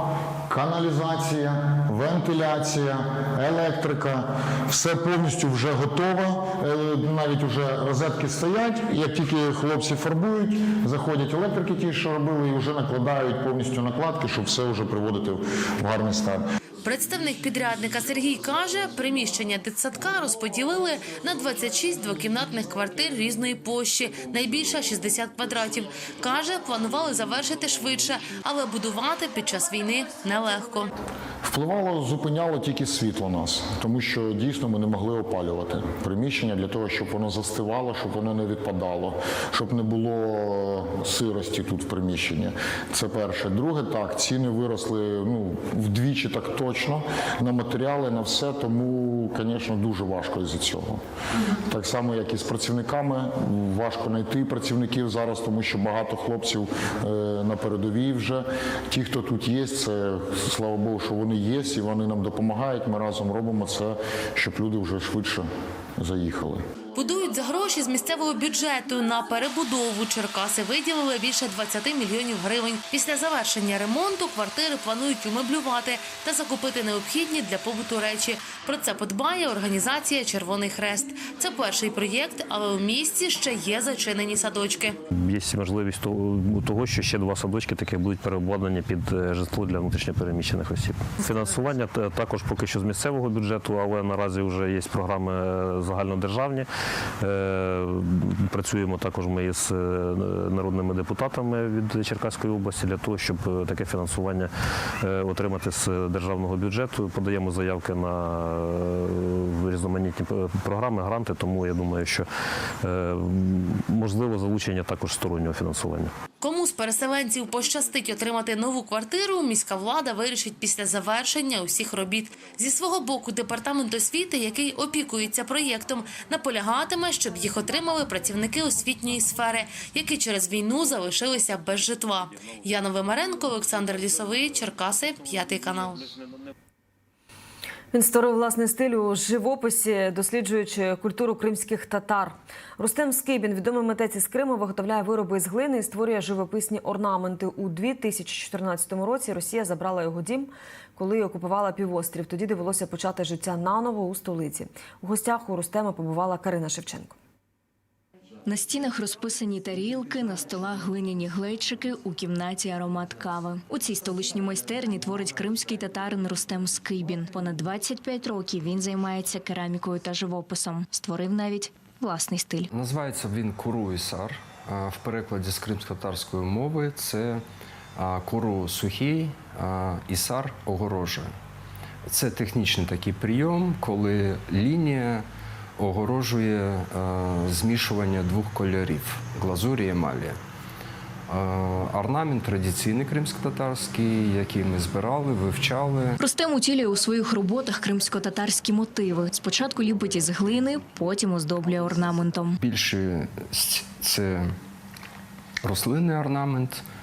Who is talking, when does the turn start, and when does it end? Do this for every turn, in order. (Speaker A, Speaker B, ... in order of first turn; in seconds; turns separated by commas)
Speaker A: 0.5-16.4, Speaker B: 16.9-30.9, Speaker A: 31.4-51.0, Speaker A: 51.6-65.5, Speaker A: 66.0-66.6, Speaker B: 67.0-85.0, Speaker C: 85.1-96.7, Speaker C: 97.2-104.5, Speaker C: 105.0-112.3, Speaker C: 112.8-116.1, Speaker B: 116.4-136.1, Speaker D: 137.9-157.2, Speaker E: 158.5-172.7, Speaker F: 172.7-177.4, Speaker F: 178.0-181.3, Speaker F: 182.1-185.2, Speaker F: 185.8-190.4, Speaker F: 191.3-196.2, Speaker E: 196.2-202.6, Speaker F: 202.6-204.5, Speaker F: 205.7-206.8